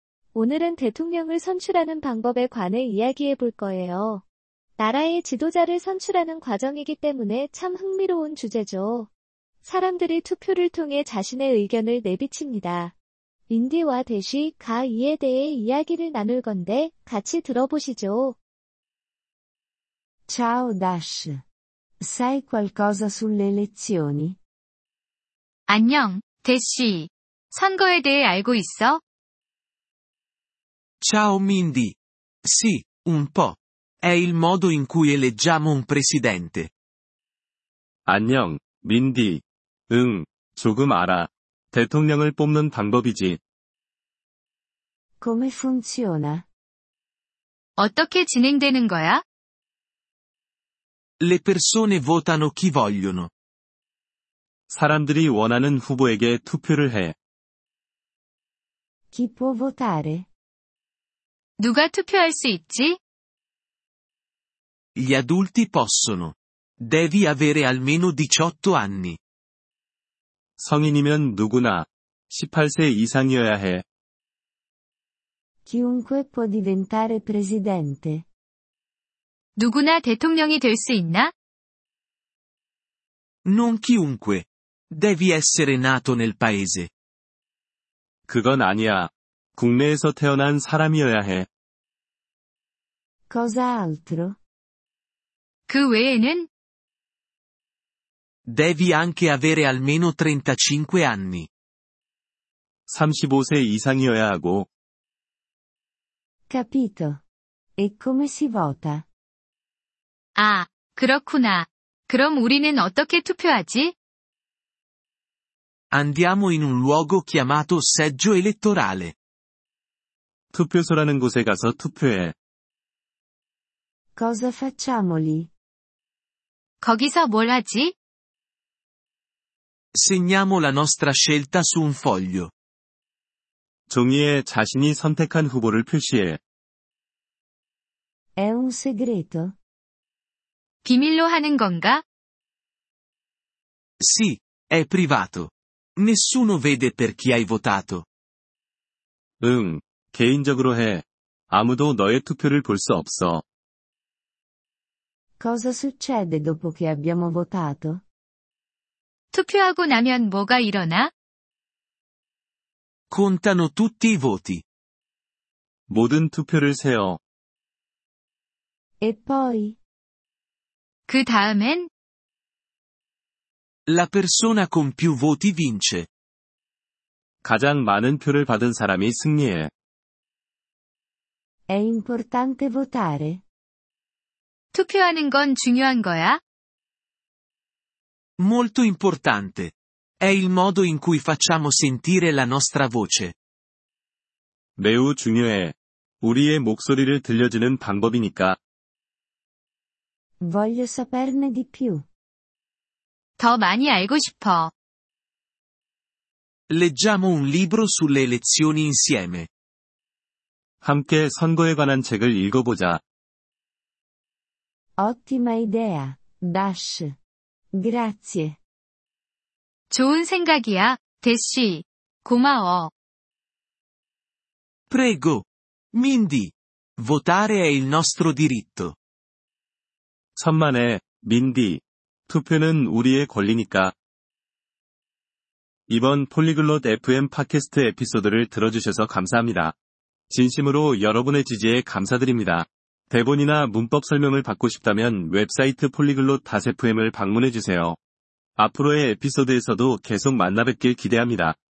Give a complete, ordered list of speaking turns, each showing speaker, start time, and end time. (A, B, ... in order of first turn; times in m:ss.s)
0:00.4-0:04.2 A
0:04.8-0:09.1 A
0:09.6-0:12.9 A
0:13.5-0:18.4 A
0:20.3-0:21.4 B
0:22.0-0:24.4 B
0:25.7-0:29.0 C
0:31.0-0:36.7 D
0:38.1-0:43.4 E
0:45.2-0:46.5 B
0:47.8-0:49.2 C
0:51.2-0:53.3 D
0:54.7-0:57.2 E
0:59.1-1:00.3 B
1:01.6-1:03.0 C
1:05.0-1:09.2 D
1:10.6-1:13.8 E
1:15.7-1:18.3 B
1:19.6-1:21.3 C
1:23.4-1:26.9 D
1:28.3-1:31.5 E
1:33.3-1:34.4 B
1:35.7-1:36.5 C
1:38.5-1:41.5 D
1:42.9-1:44.7 E
1:46.5-1:47.2 B
1:47.8-1:49.1 B
1:50.4-1:54.0 C
1:55.9-1:59.2 D
2:00.5-2:02.4 E
2:04.2-2:05.5 B
2:06.8-2:08.0 C
2:10.0-2:12.5 D
2:13.9-2:16.4 E
2:18.4-2:19.6 B
2:20.8-2:22.0 C
2:24.0-2:28.0 D
2:29.4-2:33.4 E
2:35.4-2:38.0 B
2:39.3-2:41.1 C
2:43.1-2:44.6 D
2:45.9-2:47.2 E
2:49.0-2:49.8 B
2:51.1-2:51.9 C
2:53.9-2:56.1 D
2:57.4-2:59.7 E
3:01.7-3:03.4 B
3:04.7-3:06.4 C
3:08.4-3:13.4 D
3:14.8-3:18.6 E
3:20.4-3:22.0 B
3:23.4-3:24.7 C
3:26.7-3:29.5 D
3:30.8-3:33.0 E
3:35.0-3:37.2 B
3:37.7-3:38.6 B
3:39.9-3:42.9 C
3:44.9-3:49.0 D
3:50.4-3:54.0 E
3:55.9-3:59.8 E
4:00.3-4:08.0 E
4:08.6-4:11.6 E